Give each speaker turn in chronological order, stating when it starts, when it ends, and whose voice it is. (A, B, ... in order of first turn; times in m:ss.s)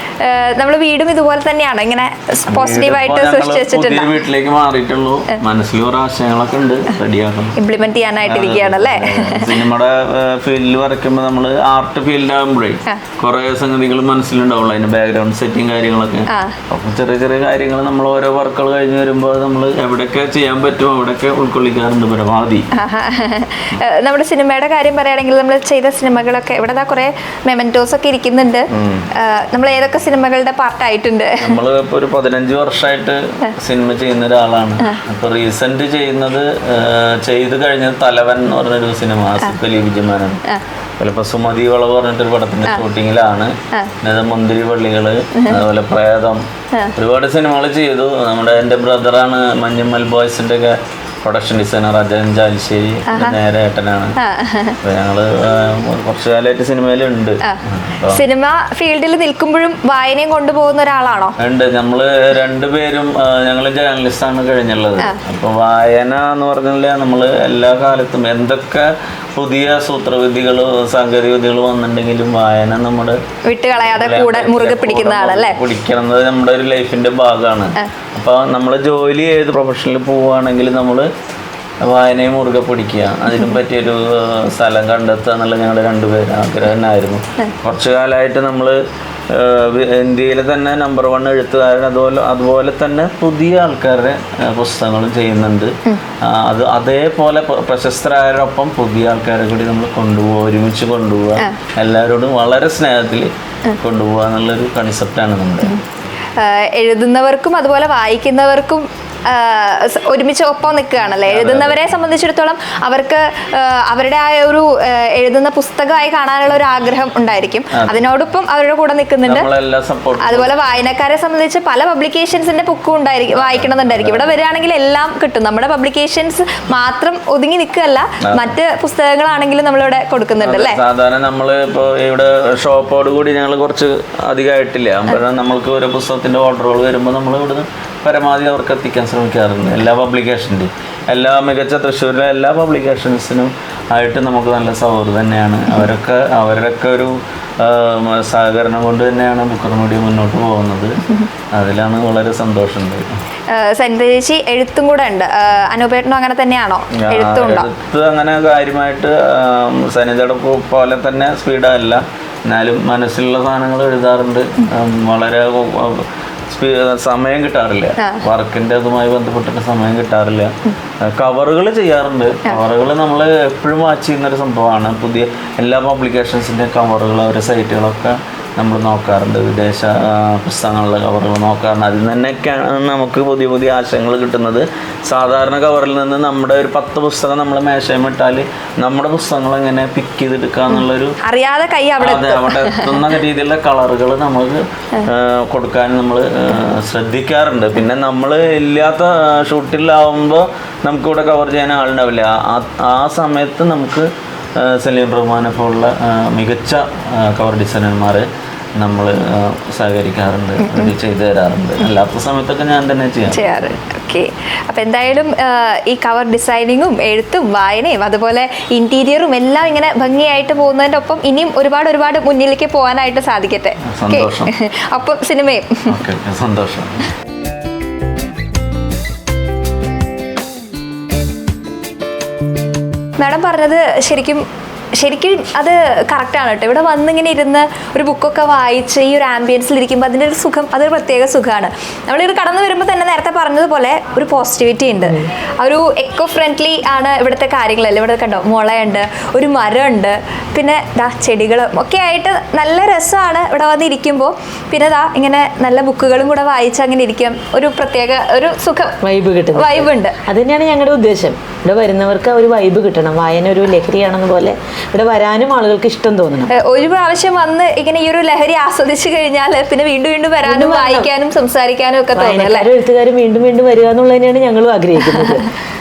0:00.2-0:04.1 A
0:02.5-0:07.6 B
0:07.6-0:09.5 A
0:08.3-0:22.7 B
0:16.3-0:16.6 A
0:22.8-0:31.6 A
0:28.7-0:29.1 B
0:31.4-0:40.4 B
0:41.0-0:46.4 B
0:45.4-0:45.6 A
0:47.0-0:54.1 B
0:53.1-0:53.4 A
0:54.2-0:54.8 A
0:54.8-0:58.2 B
0:57.4-1:01.4 A
1:01.4-1:13.2 B
1:13.4-1:15.6 A
1:13.8-1:21.1 B
1:21.8-1:28.8 B
1:29.3-1:45.7 B
1:46.4-1:59.5 A
1:51.3-1:51.8 B
1:57.8-1:58.0 B
1:59.3-2:00.5 B
2:00.2-2:10.8 A
2:03.4-2:04.4 B
2:08.3-2:08.5 B
2:10.4-2:31.0 B
2:31.5-2:33.0 B
2:33.5-2:37.7 A
2:37.0-2:50.5 B
2:51.0-3:11.2 B
3:11.2-3:12.9 A
3:12.0-3:24.1 B
3:24.6-3:28.3 B
3:28.8-3:33.7 B
3:33.3-3:45.9 A
3:43.9-3:44.5 B
3:45.9-3:47.0 B
3:53.2-3:54.4 A
3:55.0-4:19.0 A
4:19.0-4:26.5 C
4:19.5-4:20.2 A
4:26.5-4:32.7 A
4:30.4-4:31.1 C
4:32.1-4:35.5 C